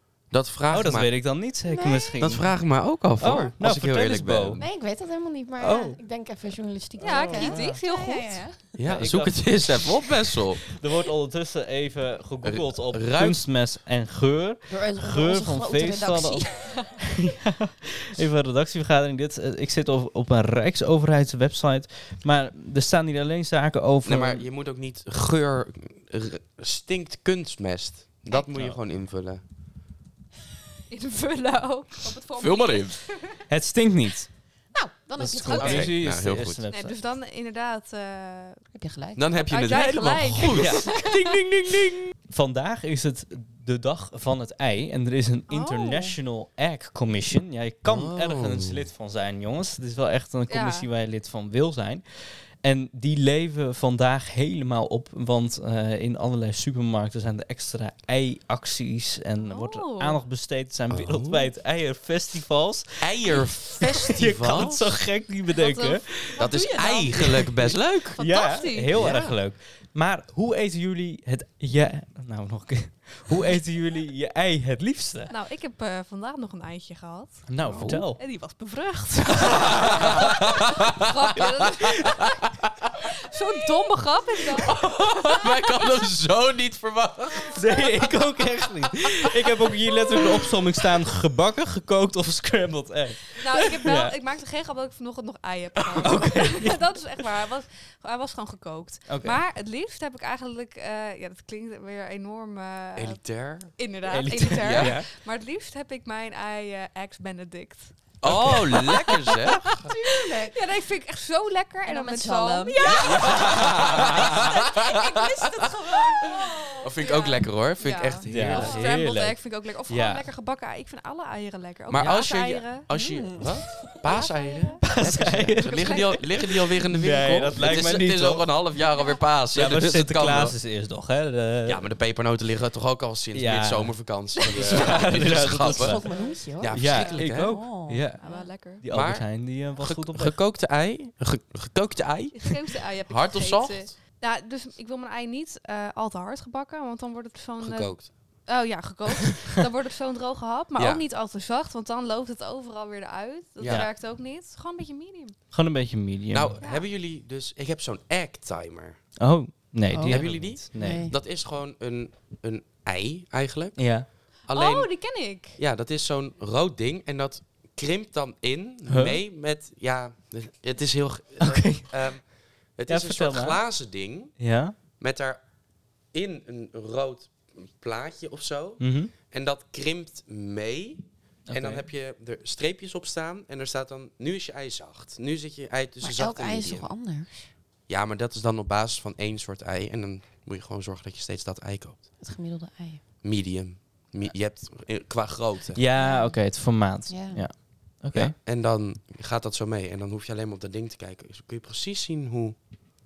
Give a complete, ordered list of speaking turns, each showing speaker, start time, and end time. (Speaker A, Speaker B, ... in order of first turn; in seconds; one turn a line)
Speaker A: 0.3-1.1
Speaker B: 0.7-2.5
Speaker C: 1.6-2.3
Speaker A: 2.2-4.6
Speaker B: 3.2-4.6
Speaker C: 4.6-9.0
Speaker B: 5.6-6.0
Speaker D: 7.0-8.4
Speaker B: 7.0-7.7
Speaker A: 8.8-10.6
Speaker B: 8.9-9.9
Speaker B: 10.6-24.5
Speaker A: 12.4-13.4
Speaker C: 14.7-17.0
Speaker A: 24.1-29.4
Speaker B: 28.5-28.8
Speaker D: 30.9-33.4
Speaker A: 32.4-33.0
Speaker B: 33.5-34.3
Speaker C: 34.7-36.0
Speaker B: 35.2-37.0
Speaker D: 35.5-35.9
Speaker A: 35.6-36.6
Speaker D: 36.7-38.6
Speaker C: 38.7-39.3
Speaker A: 39.2-42.1
Speaker D: 39.4-41.4
Speaker B: 40.5-40.9
Speaker B: 42.3-66.4
Speaker D: 45.5-46.2
Speaker A: 47.9-48.8
Speaker D: 50.5-50.9
Speaker D: 59.4-60.2
Speaker A: 60.9-61.5
Speaker A: 63.0-65.0
Speaker D: 65.5-69.0
Speaker A: 66.4-68.2
Speaker B: 68.2-75.3
Speaker A: 68.9-69.4
Speaker D: 75.3-82.4
Speaker B: 77.5-78.2
Speaker A: 77.7-78.1
Speaker B: 79.5-80.2
Speaker A: 79.6-82.9
Speaker D: 83.0-84.8
Speaker A: 84.7-87.9
Speaker B: 87.5-94.1
Speaker D: 93.4-109.9
Speaker B: 95.9-96.8
Speaker B: 99.1-99.4
Speaker A: 103.0-103.8
Speaker B: 104.1-105.1
Speaker A: 104.6-105.0
Speaker A: 108.2-109.7
Speaker B: 108.2-108.6
Speaker C: 109.7-110.7
Speaker D: 110.4-113.5
Speaker C: 111.8-116.9
Speaker A: 112.9-115.7
Speaker B: 113.1-114.4
Speaker A: 116.3-118.9
Speaker D: 117.0-122.9
Speaker B: 118.3-120.3
Speaker A: 121.9-130.6
Speaker C: 122.9-123.9
Speaker D: 124.0-124.9
Speaker B: 124.8-128.5
Speaker D: 125.6-126.2
Speaker B: 129.5-131.8
Speaker A: 131.7-137.5
Speaker B: 133.3-140.4
Speaker C: 135.1-138.5
Speaker D: 136.9-137.2
Speaker D: 138.2-138.8
Speaker A: 138.9-143.9
Speaker D: 142.3-155.4
Speaker A: 147.6-148.1
Speaker A: 150.8-151.0
Speaker A: 153.6-153.9
Speaker B: 155.5-156.6
Speaker A: 156.3-159.0
Speaker B: 159.2-161.1
Speaker C: 159.9-161.2
Speaker A: 160.0-174.4
Speaker B: 163.8-164.1
Speaker D: 164.5-165.6
Speaker B: 168.9-169.2
Speaker B: 171.4-172.0
Speaker B: 172.9-173.8
Speaker B: 174.4-174.8
Speaker A: 175.0-175.4
Speaker A: 176.1-186.9
Speaker B: 178.8-179.1
Speaker B: 181.5-181.8
Speaker C: 186.0-187.5
Speaker A: 187.9-192.1
Speaker C: 192.2-193.0
Speaker A: 193.2-195.8
Speaker B: 195.8-198.3
Speaker C: 196.0-196.4
Speaker C: 197.1-197.5
Speaker A: 198.1-202.6